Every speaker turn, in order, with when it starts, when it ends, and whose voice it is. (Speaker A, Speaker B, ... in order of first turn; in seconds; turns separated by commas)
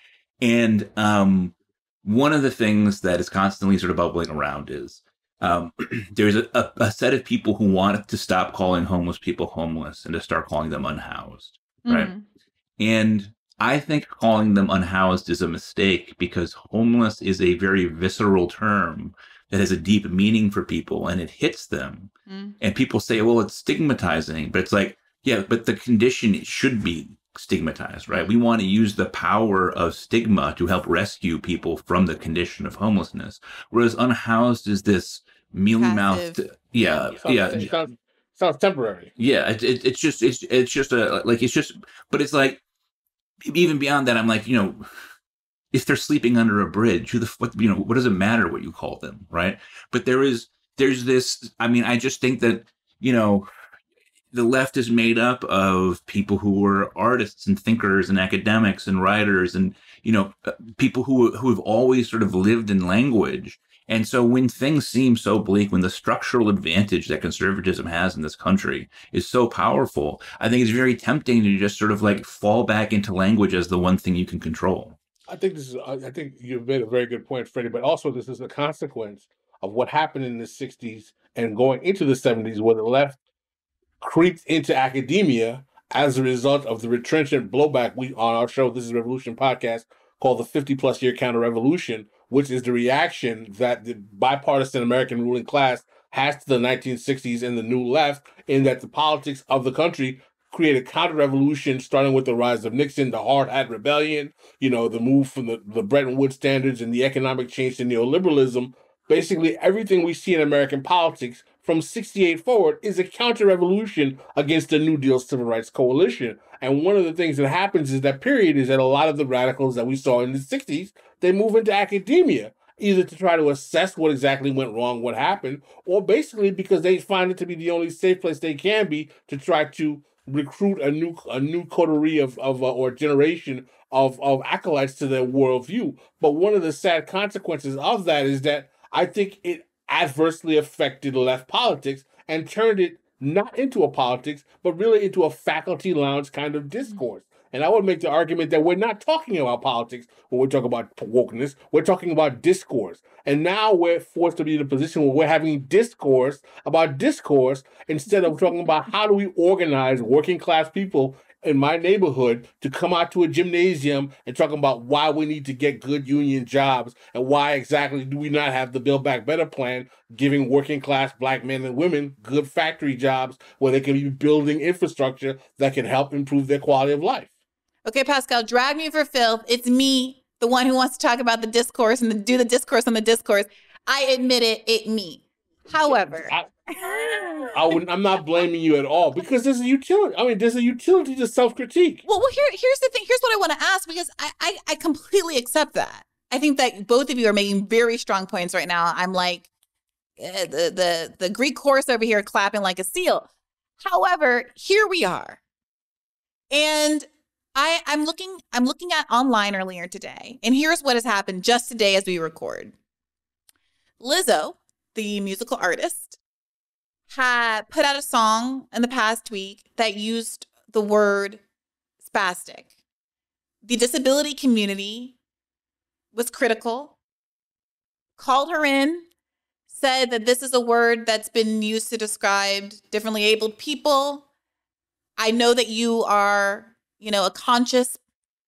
Speaker A: 0.4-12.1, Speaker B: 11.9-12.2, Speaker A: 12.8-37.7, Speaker B: 22.3-22.6, Speaker B: 35.8-36.4, Speaker C: 37.1-39.1, Speaker A: 39.2-42.6, Speaker A: 43.5-44.9, Speaker A: 45.7-53.5, Speaker A: 54.3-75.0, Speaker C: 75.3-83.2, Speaker C: 84.0-177.3, Speaker B: 177.9-187.8, Speaker C: 185.8-186.5, Speaker C: 187.5-192.0, Speaker B: 192.1-199.5, Speaker B: 200.2-203.3, Speaker B: 203.8-205.4, Speaker B: 206.5-212.7, Speaker B: 214.0-216.2, Speaker B: 217.1-221.4, Speaker B: 222.0-222.7, Speaker B: 223.6-225.2, Speaker B: 226.1-227.0, Speaker B: 228.2-229.1, Speaker B: 229.7-234.3, Speaker B: 235.2-238.0